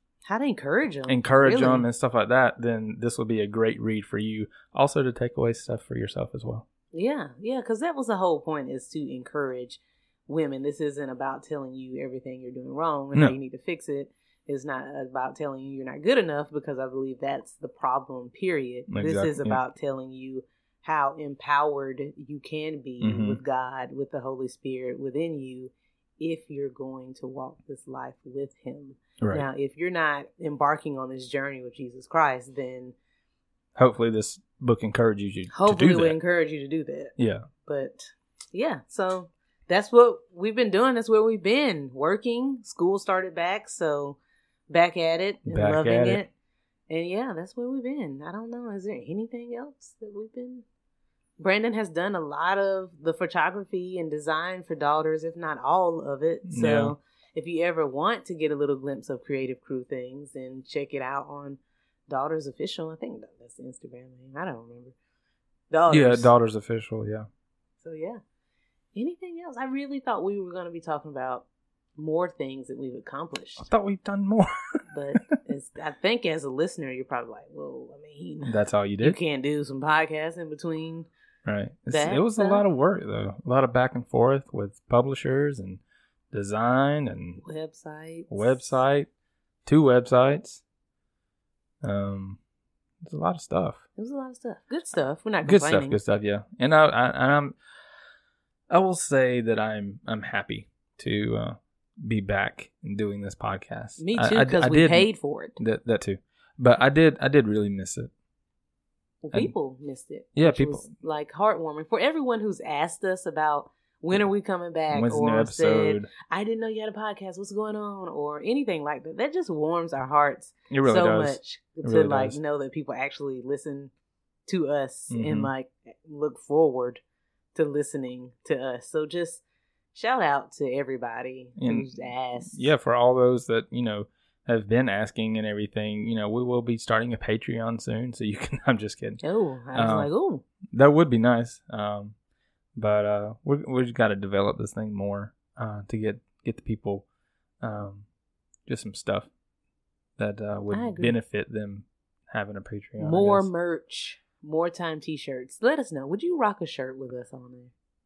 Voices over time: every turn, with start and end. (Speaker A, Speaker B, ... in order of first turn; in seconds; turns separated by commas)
Speaker A: 0.2-1.9, Speaker B: 1.1-6.6, Speaker A: 6.9-32.9, Speaker B: 18.9-19.6, Speaker B: 23.0-23.4, Speaker B: 29.2-29.4, Speaker B: 33.8-36.2, Speaker A: 35.5-46.3, Speaker B: 37.2-37.5, Speaker B: 45.5-46.2, Speaker A: 46.9-50.6, Speaker A: 51.4-64.9, Speaker B: 56.5-57.0, Speaker A: 65.7-66.3, Speaker B: 65.9-67.3, Speaker A: 67.8-68.2, Speaker A: 68.9-73.7, Speaker B: 73.6-74.5, Speaker A: 74.9-81.1, Speaker B: 78.5-79.2, Speaker B: 81.5-85.8, Speaker A: 81.9-82.6, Speaker B: 86.3-87.4, Speaker A: 87.4-88.8, Speaker B: 88.3-89.1, Speaker B: 89.7-90.6, Speaker B: 91.8-92.4, Speaker B: 93.0-93.8, Speaker A: 94.0-96.0, Speaker B: 95.4-97.6, Speaker B: 98.7-108.1, Speaker A: 104.0-105.6, Speaker A: 109.2-123.9, Speaker B: 110.3-110.8, Speaker B: 114.9-116.1, Speaker B: 120.7-122.4, Speaker A: 124.5-127.0, Speaker B: 125.1-125.5, Speaker A: 127.5-129.4, Speaker A: 129.9-132.7, Speaker B: 131.6-139.2, Speaker A: 139.2-140.4, Speaker B: 139.7-140.1, Speaker B: 140.7-142.1, Speaker B: 142.8-147.1, Speaker B: 147.6-148.1, Speaker B: 148.7-149.3, Speaker B: 150.2-153.5, Speaker A: 150.7-151.2, Speaker A: 153.0-157.7